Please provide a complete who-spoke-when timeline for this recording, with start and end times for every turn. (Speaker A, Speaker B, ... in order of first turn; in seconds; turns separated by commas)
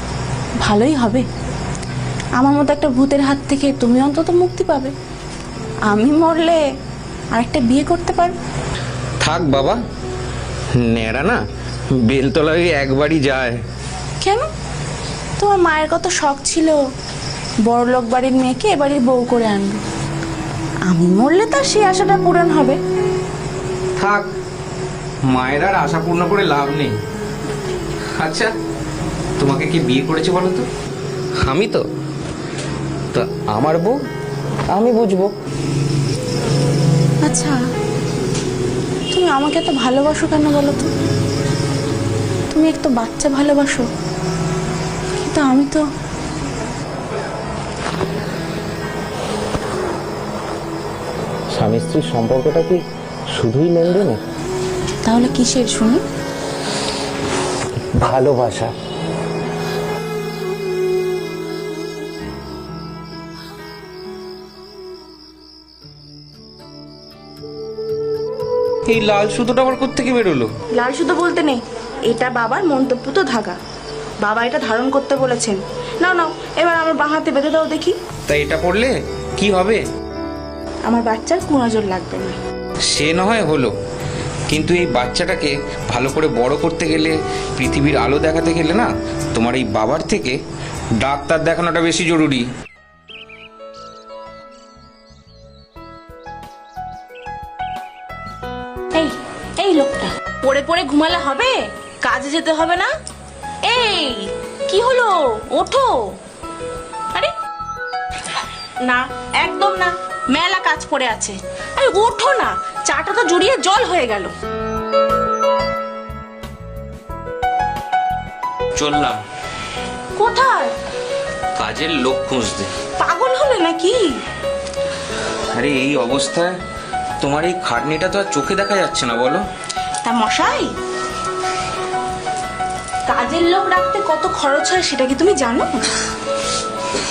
Speaker A: 0.6-1.2, Speaker A: 2.4-4.9, Speaker A: 5.9-6.6, Speaker A: 7.3-8.3, Speaker B: 9.2-9.8, Speaker B: 10.8-11.4, Speaker B: 12.0-13.6, Speaker A: 14.2-14.5, Speaker A: 15.4-16.8, Speaker A: 17.7-19.8, Speaker A: 20.9-22.8, Speaker B: 24.0-24.3, Speaker B: 25.3-27.0, Speaker B: 28.2-28.5, Speaker B: 29.4-30.7, Speaker B: 31.4-31.9, Speaker B: 33.1-34.0, Speaker B: 34.7-35.3, Speaker A: 37.2-37.6, Speaker A: 39.1-40.9, Speaker A: 42.5-43.9, Speaker A: 45.2-45.9, Speaker B: 51.5-52.8, Speaker B: 53.3-54.2, Speaker A: 55.0-56.0, Speaker B: 58.0-58.7, Speaker B: 68.9-70.5, Speaker A: 70.7-73.6, Speaker A: 74.2-78.0, Speaker B: 78.3-79.8, Speaker A: 80.9-82.4, Speaker B: 82.9-83.7, Speaker B: 84.5-90.4, Speaker B: 91.0-92.5, Speaker A: 98.9-102.9, Speaker A: 103.6-106.2, Speaker A: 108.8-114.3, Speaker B: 118.8-119.2, Speaker A: 120.2-120.7, Speaker B: 121.6-122.7, Speaker A: 123.0-124.1, Speaker B: 125.5-126.5, Speaker B: 127.2-129.4, Speaker A: 130.0-130.7, Speaker A: 133.1-135.8